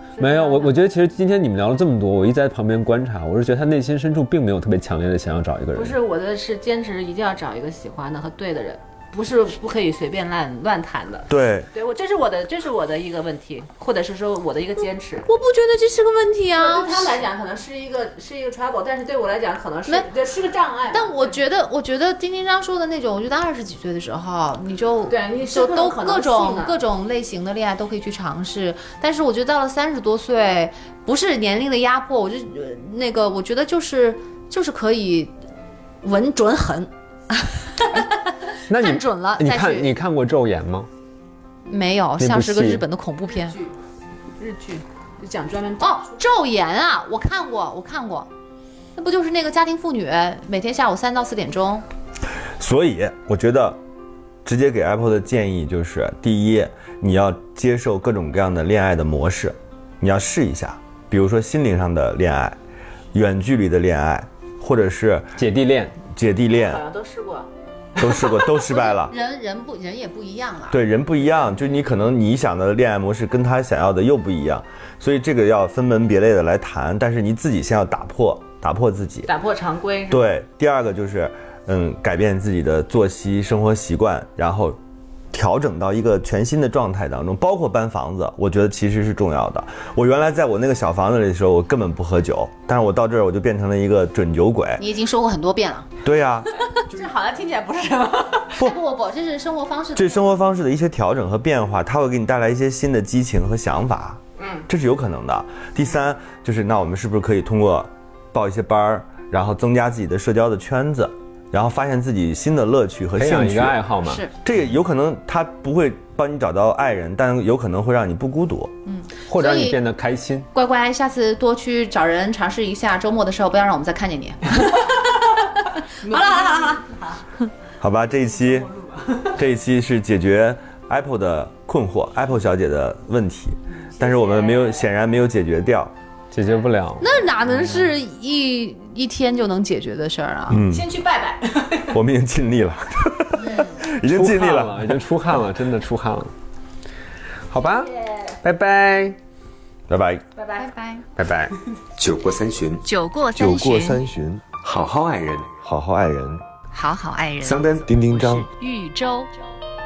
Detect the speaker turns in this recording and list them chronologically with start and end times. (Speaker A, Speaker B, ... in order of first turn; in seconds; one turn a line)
Speaker A: 0.2-0.8
Speaker B: 0.2-6.0
Speaker A: 5.7-15.3
Speaker C: 11.3-11.7
Speaker D: 15.3-17.2
Speaker A: 16.6-21.4
Speaker D: 20.9-35.4
Speaker A: 25.1-26.8
Speaker D: 36.0-39.9
Speaker B: 38.7-40.9
Speaker D: 41.7-43.6
Speaker B: 42.2-42.8
Speaker A: 43.3-43.7
Speaker A: 44.4-46.2
Speaker D: 45.8-48.3
Speaker D: 49.0-51.9
Speaker C: 52.6-53.8
Speaker C: 54.4-62.6
Speaker C: 63.1-65.4
Speaker B: 65.4-66.0
Speaker C: 66.1-66.8
Speaker A: 66.5-67.5
Speaker C: 68.0-69.1
Speaker D: 68.5-70.8
Speaker C: 70.7-79.3
Speaker A: 79.3-80.3
Speaker C: 80.1-84.8
Speaker C: 85.3-94.8
Speaker D: 94.8-95.9
Speaker C: 96.0-96.5
Speaker A: 96.9-98.6
Speaker D: 98.5-100.4
Speaker C: 100.0-113.8
Speaker A: 104.4-104.7
Speaker B: 113.2-114.2
Speaker D: 114.0-114.3
Speaker C: 114.4-118.7
Speaker D: 118.9-119.8
Speaker B: 119.3-120.5
Speaker D: 120.5-124.9
Speaker A: 126.0-127.2
Speaker D: 126.0-126.8
Speaker C: 127.8-128.7
Speaker A: 128.4-129.3
Speaker C: 129.3-135.9
Speaker A: 133.9-134.8
Speaker B: 136.3-137.1
Speaker D: 137.0-140.6
Speaker C: 140.5-140.9
Speaker A: 140.7-142.0
Speaker C: 141.9-145.0
Speaker B: 144.1-146.3
Speaker B: 147.5-147.9
Speaker A: 147.5-148.4
Speaker B: 148.4-149.2
Speaker C: 149.9-150.2
Speaker A: 150.4-150.7
Speaker D: 150.6-151.1
Speaker B: 151.2-151.5
Speaker E: 152.0-152.8
Speaker D: 152.8-154.1
Speaker C: 153.4-154.4
Speaker E: 154.5-155.6
Speaker C: 155.6-156.4
Speaker D: 156.7-159.3
Speaker E: 157.4-157.9
Speaker C: 157.9-158.5